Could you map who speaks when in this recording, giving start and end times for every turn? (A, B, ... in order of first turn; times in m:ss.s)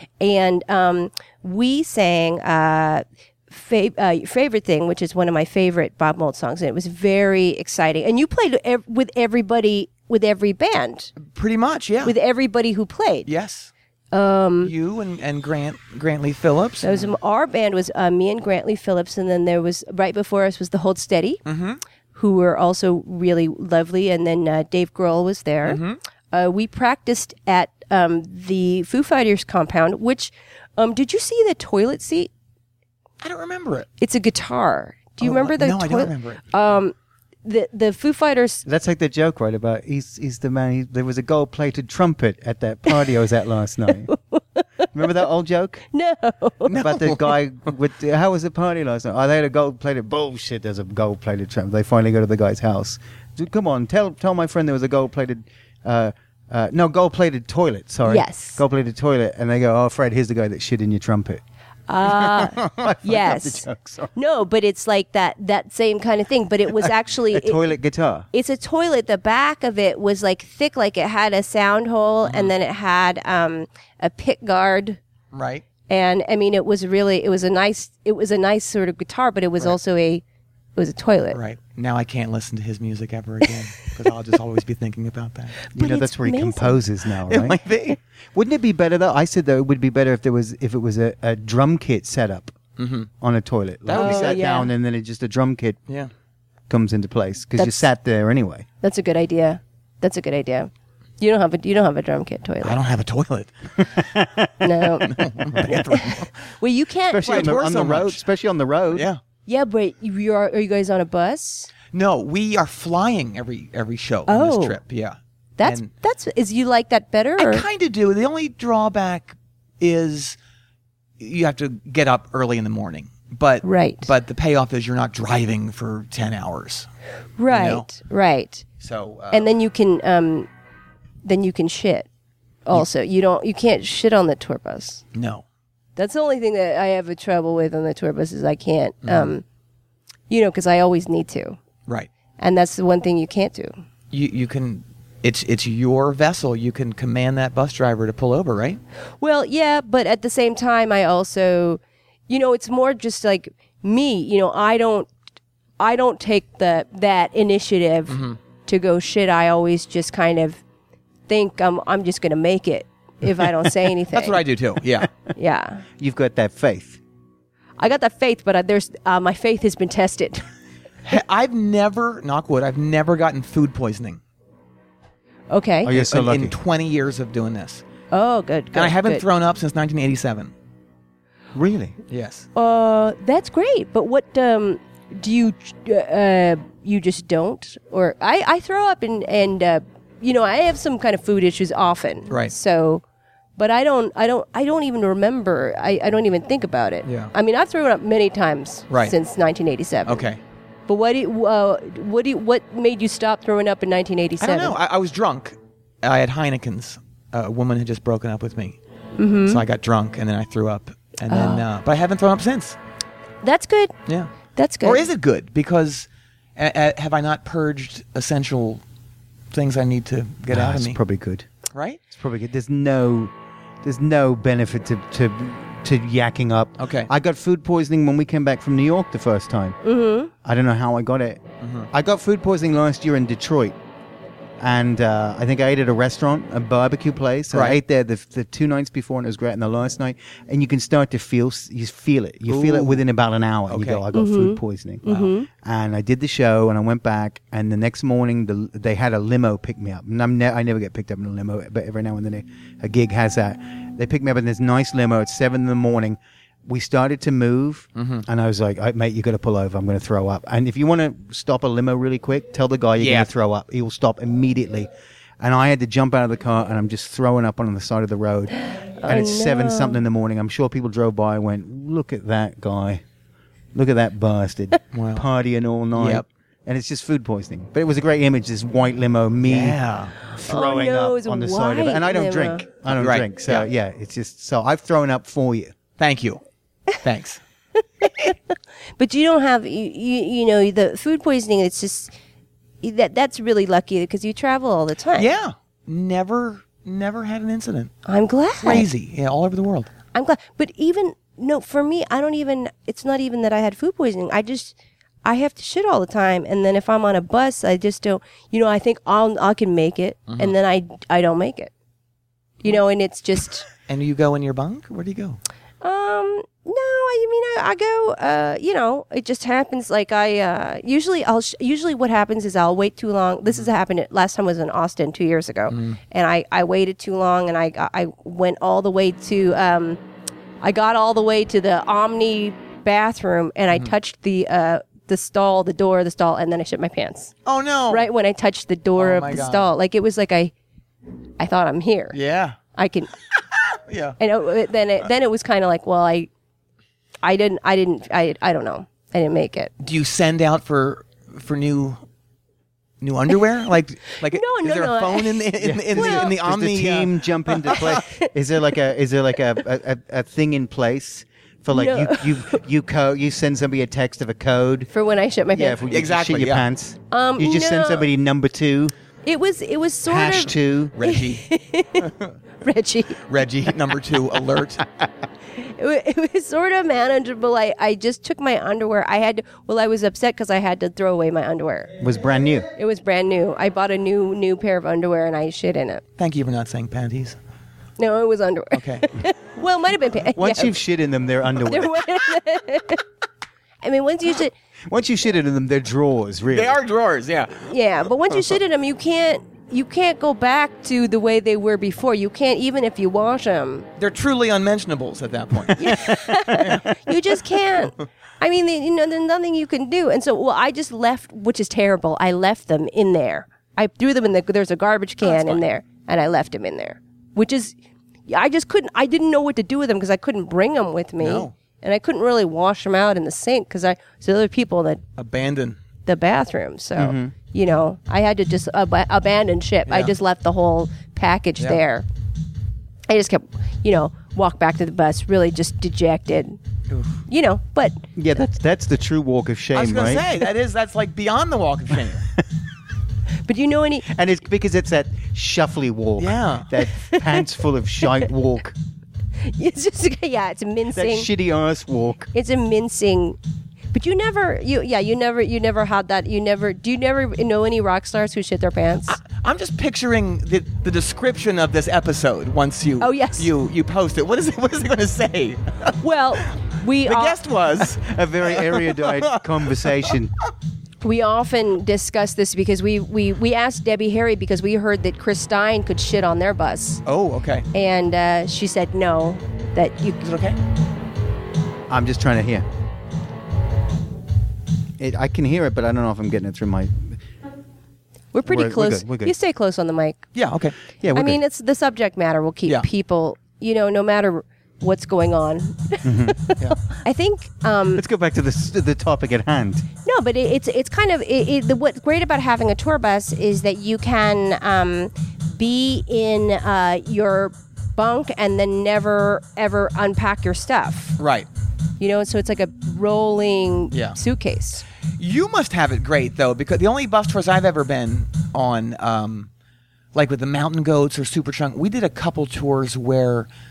0:00.2-0:11.2 A
0:11.2-0:12.2 B
0:12.0-0:13.3 A
0:13.2-0:13.7 B
0:14.1-0:14.7 A
0:14.6-0:17.1 B
0:16.8-0:21.4 A
0:21.4-0:21.8 B
0:22.1-0:25.8 A
0:25.6-0:26.0 B
0:26.3-0:32.3 A
0:33.2-0:33.9 B
0:34.0-0:36.9 A
0:35.2-0:36.4 B
0:37.4-0:38.6 A
0:38.6-0:44.1 C
0:44.0-0:44.9 A
0:44.9-0:45.8 C
0:45.9-0:46.7 A
0:46.6-0:47.4 B
0:46.7-1:01.4 C
0:58.1-0:58.6 A
1:01.9-1:07.6 A
1:02.1-1:04.1 C
1:02.6-1:02.9 B
1:07.3-1:08.3 C
1:08.3-1:15.0 A
1:12.2-1:12.5 B
1:15.3-1:15.6 B
1:15.9-1:20.2 A
1:20.8-1:21.4 A
1:21.3-1:25.6 B
1:25.7-1:26.8 A
1:25.8-1:27.6 C
1:27.3-1:28.0 B
1:28.3-1:32.6 C
1:32.8-1:33.1 B
1:33.2-1:35.8 C
1:33.9-1:34.4 B
1:33.9-1:34.7 A
1:36.7-1:38.6 C
1:37.6-1:37.9 A
1:38.8-1:42.8 A
1:42.6-1:44.0 B
1:43.9-1:44.6 C
1:44.6-1:47.6 A
1:45.0-1:46.4 B
1:47.1-1:49.1 C
1:47.2-1:48.2 B
1:48.9-1:49.2 B
1:49.5-1:51.7 A
1:51.9-1:55.9 B
1:54.3-1:54.8 A
1:55.6-1:57.6 A
1:57.4-2:00.4 B
2:01.2-2:06.9 B
2:03.6-2:04.1 A
2:07.4-2:08.6 A
2:07.5-2:07.9 B
2:08.8-2:09.5 B
2:09.3-2:10.5 A
2:11.2-2:12.1 A
2:12.6-2:15.0 A
2:15.1-2:15.4 B
2:16.0-2:19.4 A
2:19.0-2:19.3 B
2:20.3-2:21.6 A
2:22.4-2:23.7 A
2:24.1-2:28.8 B
2:29.2-2:35.1 A
2:35.8-2:40.6 A
2:38.1-2:38.4 B
2:41.3-2:44.4 A
2:43.7-2:45.1 B
2:45.3-2:45.8 A
2:46.0-2:47.0 C
2:47.8-2:50.4 A
2:51.0-2:54.2 B
2:55.5-2:55.9 A
2:55.8-2:56.6 C
2:55.9-2:57.8 B
2:58.1-2:59.2 A
2:58.7-3:00.5 B
3:01.6-3:02.0 C
3:02.1-3:02.5 B
3:02.6-3:13.0 A
3:13.6-3:20.3 A
3:17.0-3:17.3 B
3:20.1-3:20.4 B
3:20.9-3:24.8 A
3:24.4-3:28.8 B
3:29.2-3:29.6 A
3:29.5-3:32.8 B
3:31.3-3:31.6 A
3:33.4-3:33.9 A
3:34.1-3:34.3 B
3:34.6-3:35.1 A
3:34.8-3:38.8 B
3:39.5-3:41.0 B
3:40.5-3:41.5 C
3:41.7-3:42.0 B
3:42.1-3:49.8 C
3:46.8-3:47.1 B
3:49.8-3:50.3 A
3:50.4-3:53.7 C
3:51.6-3:51.9 B
3:54.6-4:33.0 C
3:57.5-3:57.8 B
4:02.5-4:03.0 B
4:03.7-4:04.0 B
4:04.1-4:05.5 A
4:17.9-4:18.2 B
4:23.0-4:23.3 B
4:29.0-4:30.0 A
4:33.8-4:39.8 C
4:34.9-4:35.2 B
4:35.9-4:36.2 B
4:39.4-4:40.1 B
4:40.4-4:45.7 C
4:40.4-4:42.6 A
4:42.9-4:43.7 B
4:46.0-4:46.4 B
4:47.0-4:47.4 B
4:47.8-4:48.4 A
4:49.0-4:52.1 A
4:52.8-4:55.3 A
4:55.2-4:57.9 B
4:58.1-4:58.8 A
4:58.6-4:59.9 B
5:00.1-5:11.7 A
5:10.3-5:10.6 B
5:12.6-5:13.6 A
5:13.9-5:15.4 B
5:15.8-5:30.0 A
5:25.7-5:26.0 B
5:30.6-5:37.3 A
5:37.4-5:38.1 B
5:37.9-5:40.5 A
5:39.0-5:39.7 B
5:41.4-5:42.2 A
5:42.1-5:42.6 B
5:42.7-5:43.1 A
5:43.7-5:44.2 B
5:44.2-5:46.3 A
5:47.2-5:49.7 A
5:49.8-5:52.0 B
5:53.0-5:58.0 B
5:54.2-5:56.3 A
5:55.6-6:04.9 C
5:58.0-5:58.3 A
6:01.7-6:02.6 A
6:04.9-6:05.8 A
6:05.5-6:08.9 C
6:05.9-6:06.7 B
6:07.1-6:08.1 A
6:09.2-6:13.3 A
6:10.1-6:11.0 C
6:10.9-6:11.4 B
6:13.3-6:14.9 B
6:15.6-6:21.9 A
6:22.0-6:22.7 C
6:22.8-6:26.0 A
6:26.2-6:27.4 B
6:28.0-6:30.8 A
6:28.7-6:29.1 B
6:30.3-6:32.0 C
6:31.6-6:33.0 A
6:33.8-6:34.5 A
6:34.9-6:36.8 C
6:36.5-6:37.7 B
6:37.7-6:43.9 A
6:44.0-6:46.9 B
6:45.7-6:57.8 A
6:46.5-6:46.8 C
6:55.2-6:55.6 B
6:58.3-7:05.0 A
7:01.2-7:01.5 B
7:05.2-7:05.8 B
7:06.0-7:12.0 A
7:07.0-7:07.3 C
7:09.9-7:10.1 B
7:13.1-7:16.6 A
7:16.9-7:17.2 B
7:17.3-7:18.1 A
7:18.2-7:20.3 C
7:19.7-7:22.3 B
7:23.4-7:24.1 A
7:24.1-7:28.7 C
7:26.2-7:26.7 B
7:27.0-7:27.4 A
7:29.4-7:31.3 A
7:30.9-7:32.3 C
7:32.3-7:33.4 A
7:33.9-7:39.2 A
7:39.1-7:46.0 B
7:43.0-7:43.5 A
7:46.0-7:47.4 A
7:47.0-7:50.2 B
7:47.9-7:50.3 C
7:51.0-7:57.0 A
7:57.0-7:57.7 B
7:57.7-8:00.3 A
8:00.2-8:00.6 B
8:01.9-8:02.7 C
8:05.0-8:07.2 C
8:08.3-8:10.3 A
8:08.4-8:09.3 C
8:10.3-8:10.7 B
8:11.0-8:11.4 C
8:11.1-8:18.0 A
8:16.0-8:16.4 C
8:17.9-8:19.8 C
8:20.0-8:31.2 A
8:31.2-8:31.5 B
8:32.0-8:34.8 A
8:33.9-8:34.2 B
8:35.2-8:39.5 B
8:40.1-8:43.5 B